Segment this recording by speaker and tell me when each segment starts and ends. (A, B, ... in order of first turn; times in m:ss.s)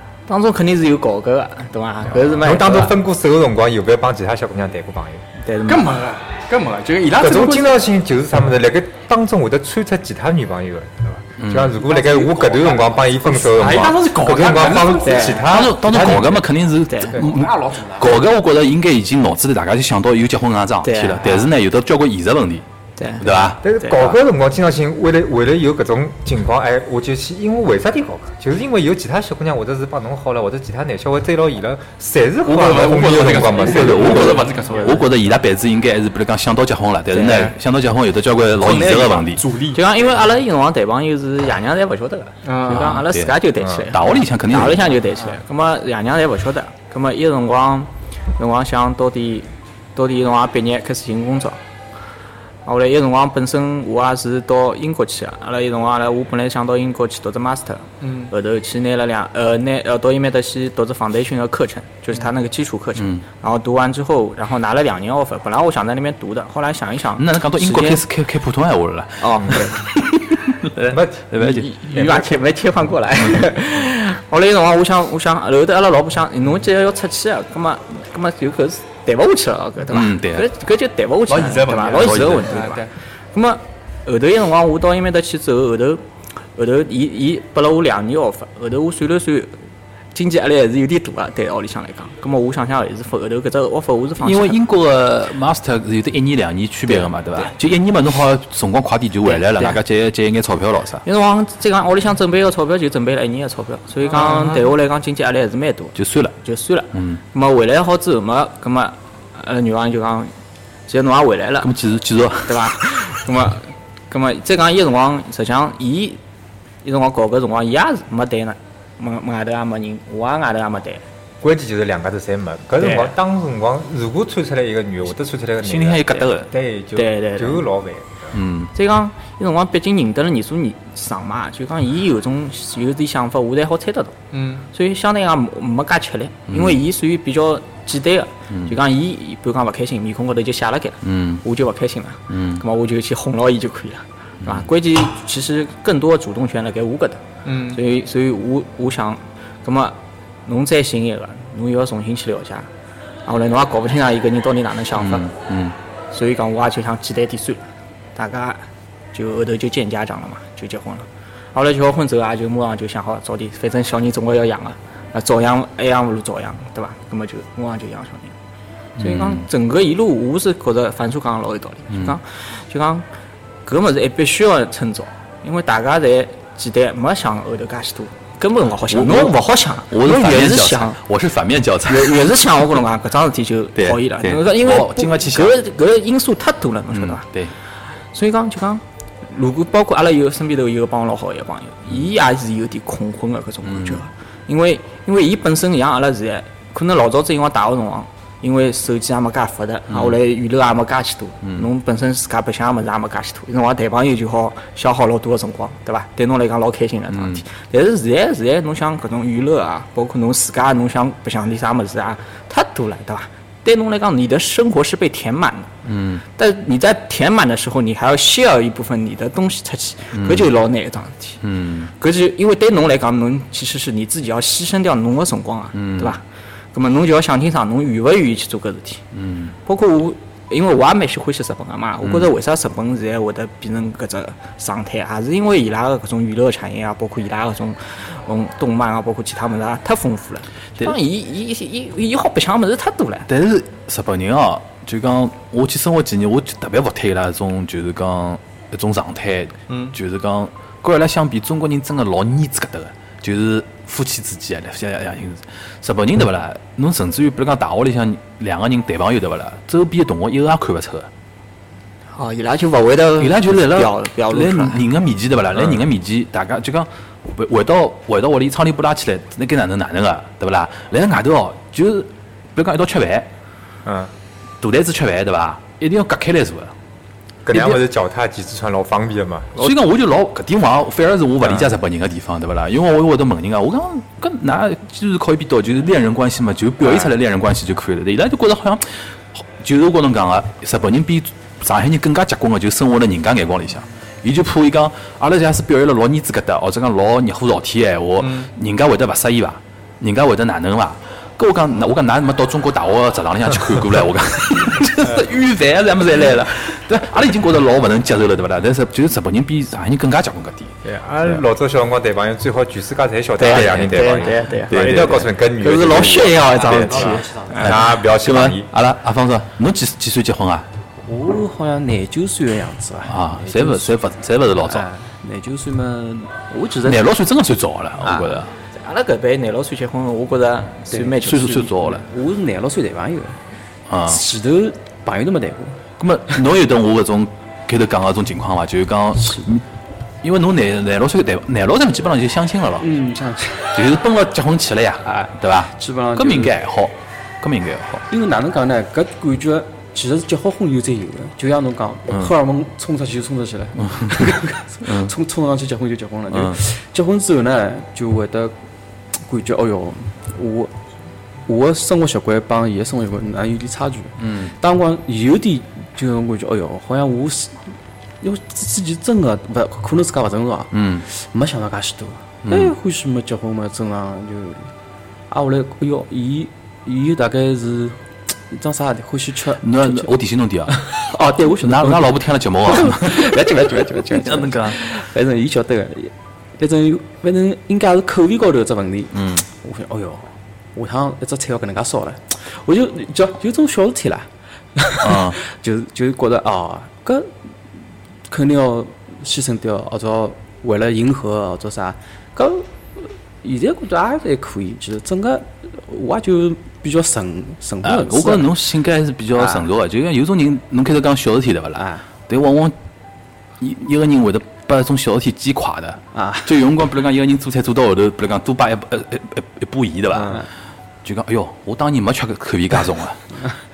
0:00.3-0:03.0 A
0:02.3-0:05.2 B
0:05.4-0:06.0 A
0:05.7-0:07.8 C
0:07.2-0:16.4 B
0:11.4-0:11.8 D
0:12.2-0:12.6 E
0:13.0-0:15.5 C
0:15.0-0:15.4 A
0:15.4-0:22.6 D
0:16.9-0:17.2 A
0:17.2-0:18.1 E
0:20.8-0:21.5 A
0:23.0-0:24.2 A
0:23.2-0:23.6 D
0:23.6-0:34.5 B
0:32.4-0:35.2 C
0:33.6-0:39.4 D
0:37.1-0:37.5 A
0:37.2-0:37.5 C
0:38.6-0:39.8 C
0:39.7-0:51.6 A
0:42.4-0:43.0 C
0:42.7-0:44.9 D
0:43.6-0:43.9 B
0:52.6-1:08.0 A
0:58.0-0:58.3 C
1:03.0-1:03.2 D
1:07.2-1:11.7 D
1:09.2-1:09.9 A
1:10.9-1:11.3 B
1:11.4-1:26.0 A
1:11.9-1:12.3 B
1:19.9-1:20.5 D
1:21.3-1:22.9 C
1:22.0-1:22.5 D
1:26.6-1:29.6 A
1:30.1-1:34.6 A
1:34.2-1:41.0 D
1:36.9-1:37.5 A
1:39.2-1:39.8 A
1:41.0-1:50.3 A
1:44.1-1:44.7 C
1:46.0-1:46.4 D
1:46.9-1:47.2 D
1:50.9-1:51.7 A
1:51.6-1:52.7 D
1:52.5-1:56.2 A
1:56.8-2:01.0 A
2:01.4-2:08.4 B
2:02.8-2:03.1 A
2:05.6-2:06.5 D
2:07.0-2:07.7 A
2:08.3-2:08.7 D
2:08.7-2:14.2 A
2:14.3-2:14.7 C
2:14.7-2:32.7 A
2:16.5-2:16.8 D
2:18.5-2:18.8 D
2:21.0-2:21.4 D
2:22.3-2:22.6 D
2:24.4-2:24.7 D
2:27.4-2:27.8 C
2:33.3-2:35.3 A
2:35.0-2:35.8 D
2:36.1-2:37.6 A
2:38.2-2:48.4 A
2:49.0-2:49.5 D
2:49.0-2:53.0 A
2:53.6-3:01.0 A
2:58.9-3:02.4 D
3:01.9-3:07.2 A
3:03.8-3:05.6 D
3:06.9-3:07.5 D
3:08.1-3:35.7 A
3:13.6-3:14.0 D
3:19.9-3:20.2 D
3:21.4-3:21.7 D
3:27.1-3:27.4 D
3:35.8-3:36.2 D
3:36.4-3:41.4 A
3:40.1-3:40.5 D
3:41.4-3:41.9 D
3:42.0-3:46.2 A
3:45.7-3:46.2 D
3:46.7-3:49.0 A
3:49.1-3:49.6 D
3:49.6-4:03.3 A
3:52.0-3:52.3 D
4:03.3-4:21.1 D
4:09.7-4:10.0 C
4:22.1-4:24.8 A
4:23.2-4:33.3 D
4:33.8-4:34.1 B
4:34.6-4:36.7 D
4:37.4-4:39.7 B
4:37.5-4:37.8 D
4:39.6-5:11.4 D
4:41.4-4:41.7 B
4:58.2-4:58.5 C
5:10.8-5:18.7 B
5:13.4-5:17.7 A
5:13.5-5:14.1 D
5:14.7-5:15.2 D
5:16.6-5:17.6 E
5:16.9-5:20.7 D
5:21.1-5:24.0 E
5:23.1-5:24.9 D
5:24.6-5:27.1 E
5:26.8-5:28.5 D
5:28.0-5:28.5 E
5:28.7-5:31.7 A
5:30.9-5:33.4 E
5:31.3-5:32.0 D
5:33.9-5:34.2 D
5:34.1-5:35.8 E
5:36.0-5:39.6 D
5:40.2-5:42.9 D
5:42.8-5:43.8 E
5:43.8-5:48.0 D
5:45.0-5:46.6 E
5:48.1-5:58.5 E
5:53.8-5:54.2 D
5:54.8-5:55.1 D
5:56.3-5:56.6 D
5:59.2-6:00.7 E
6:01.5-6:07.6 E
6:04.2-6:04.5 D
6:08.2-6:14.7 E
6:10.7-6:11.0 D
6:12.4-6:12.7 D
6:15.3-6:20.1 E
6:19.6-6:20.9 D
6:20.7-6:37.4 E
6:21.6-6:24.8 D
6:29.1-6:29.4 D
6:35.0-6:35.4 D
6:38.3-6:48.6 E
6:47.8-6:52.8 D
6:49.4-6:49.7 E
6:51.8-6:52.0 E
6:53.6-7:00.4 D
6:56.1-6:56.5 E
7:00.1-7:00.5 E
7:01.0-7:03.2 D